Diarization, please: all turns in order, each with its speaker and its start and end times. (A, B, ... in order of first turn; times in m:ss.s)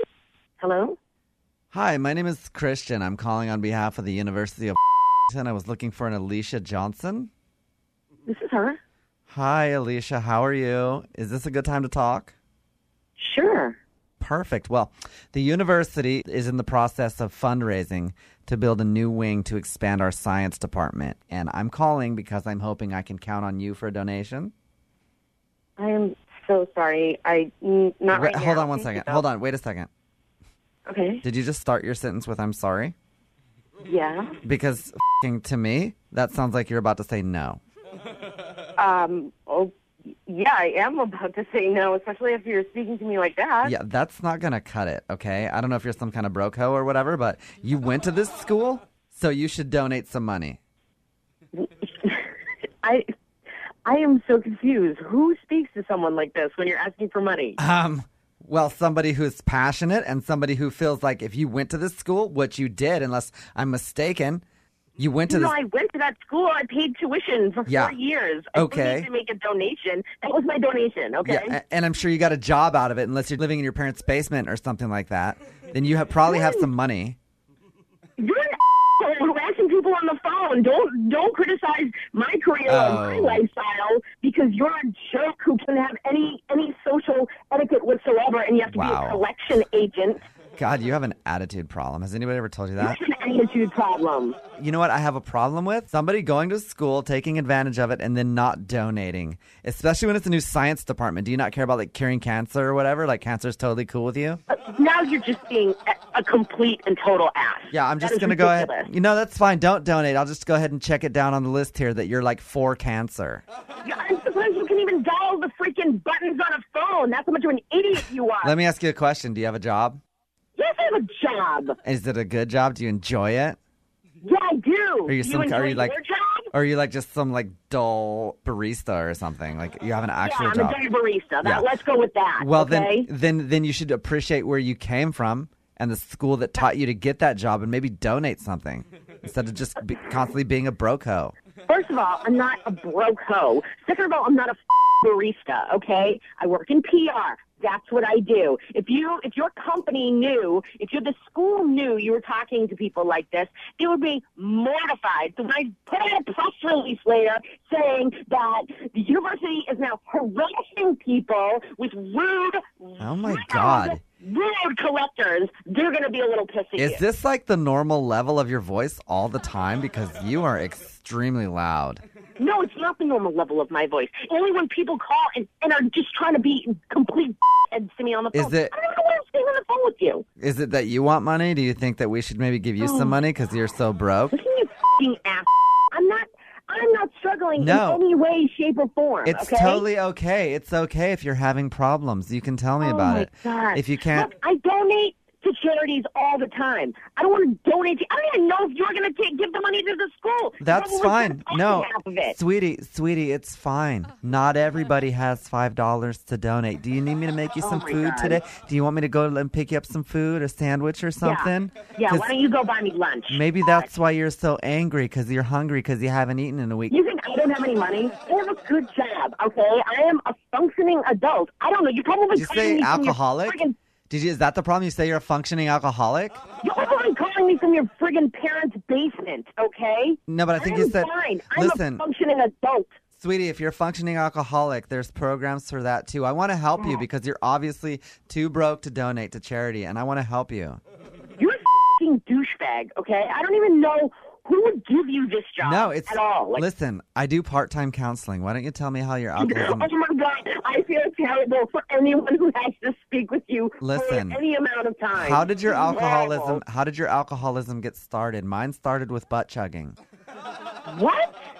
0:00.6-0:01.0 A
0:01.7-0:04.8 B
0:05.3-0:07.3 B
0:08.3-0:08.8 A
0:09.3-0:12.3 B
0:13.2-0:13.8 A
0:14.2-0:24.5 B
0:25.8-0:29.2 A
0:28.1-0:29.9 B
0:30.9-0:31.2 A
0:31.2-0:32.9 B
0:33.8-0:34.4 A
0:34.4-0:37.6 B
0:38.8-0:39.7 A
0:40.2-0:43.7 A
0:43.6-0:50.6 B
0:51.6-0:52.3 A
0:52.8-0:53.1 A
0:53.8-0:57.6 A
0:57.6-1:04.4 B
1:05.0-1:05.5 B
1:05.3-1:11.6 A
1:07.7-1:07.9 B
1:08.5-1:09.1 B
1:11.2-1:17.2 B
1:16.3-1:16.7 A
1:18.2-1:30.2 A
1:22.6-1:23.4 B
1:28.7-1:29.2 B
1:30.6-1:33.0 B
1:32.8-1:34.4 A
1:34.6-1:44.4 B
1:44.5-1:48.9 A
1:47.7-1:53.4 B
1:53.8-1:58.5 A
1:58.4-2:00.0 B
2:00.6-2:01.8 A
2:01.8-2:03.6 B
2:04.2-2:06.5 A
2:05.1-2:06.0 B
2:06.5-2:10.8 B
2:10.2-2:13.1 A
2:11.4-2:11.7 B
2:12.4-2:21.3 B
2:21.7-2:47.0 A
2:43.0-2:44.0 B
2:46.8-2:52.0 B
2:52.4-3:00.2 A
2:58.3-2:58.7 B
3:00.4-3:04.4 B
3:02.8-3:03.2 A
3:04.3-3:09.8 A
3:07.6-3:08.0 B
3:09.2-3:14.3 B
3:12.8-3:22.4 A
3:20.6-3:32.3 B
3:27.6-3:28.4 A
3:31.2-3:33.8 A
3:33.3-3:37.0 B
3:36.9-3:43.8 A
3:42.3-3:46.4 B
3:46.6-3:52.9 A
3:50.3-3:52.0 B
3:53.2-4:00.8 B
4:01.4-4:06.6 A
4:05.6-4:09.9 B
4:09.4-4:16.6 A
4:13.8-4:14.4 B
4:15.1-4:20.0 B
4:20.8-4:21.4 A